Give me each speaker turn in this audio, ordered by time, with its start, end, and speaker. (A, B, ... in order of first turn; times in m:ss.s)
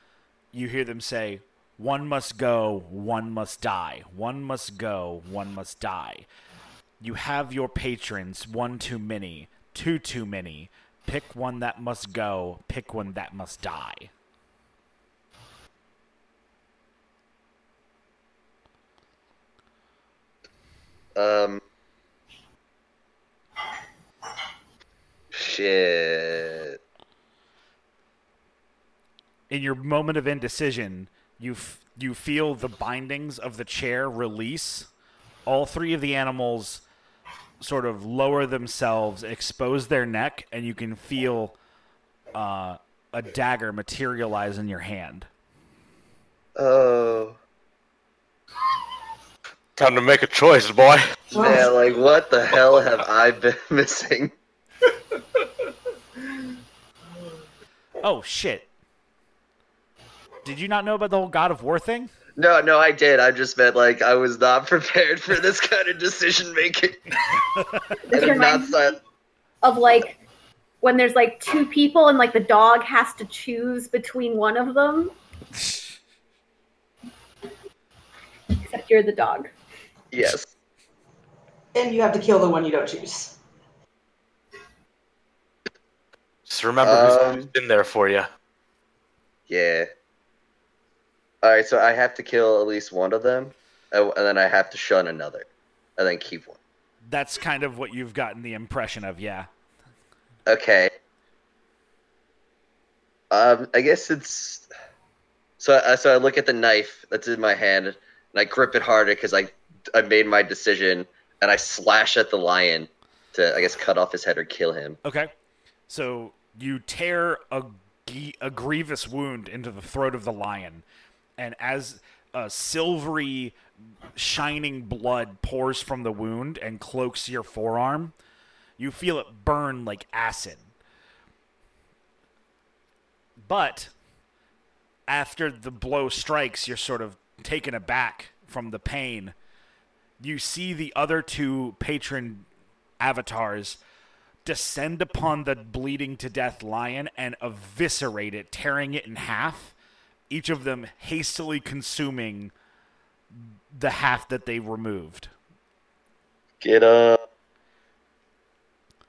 0:00.5-0:06.3 A
0:07.0-0:14.1 A
0:21.2-0:21.6 B
0:25.3-0:26.8 B
0:29.5-0:34.9 A
0:35.5-0:36.8 A
0:37.6-0:41.6 A
0:42.3-0:45.3 A
0:46.6-0:47.4 B
0:49.8-0:51.0 C
0:51.3-0:51.8 D
0:51.4-0:54.3 B
0:58.0-0:58.7 A
1:00.4-1:02.1 A
1:02.4-1:07.3 B
1:07.6-1:07.9 A
1:08.0-1:08.8 E
1:08.1-1:09.0 B
1:09.6-1:10.2 E
1:10.8-1:15.2 E
1:18.6-1:19.5 E
1:20.1-1:20.5 B
1:21.8-1:23.4 D
1:26.5-1:28.3 C
1:26.8-1:27.5 B
1:29.5-1:29.9 B
1:31.4-1:36.6 B
1:37.1-1:39.5 A
1:40.5-1:40.9 B
1:43.3-1:44.7 B
1:45.6-1:55.0 B
1:55.0-1:55.3 A
1:55.9-2:00.8 A
2:01.4-2:03.6 A
2:04.2-2:08.1 A
2:08.8-2:10.7 A
2:13.4-2:13.9 A
2:15.1-2:19.4 A
2:20.2-2:22.5 A
2:23.0-2:23.8 A
2:24.4-2:29.7 A
2:30.3-2:32.5 A
2:33.3-2:35.3 A
2:36.6-2:37.2 B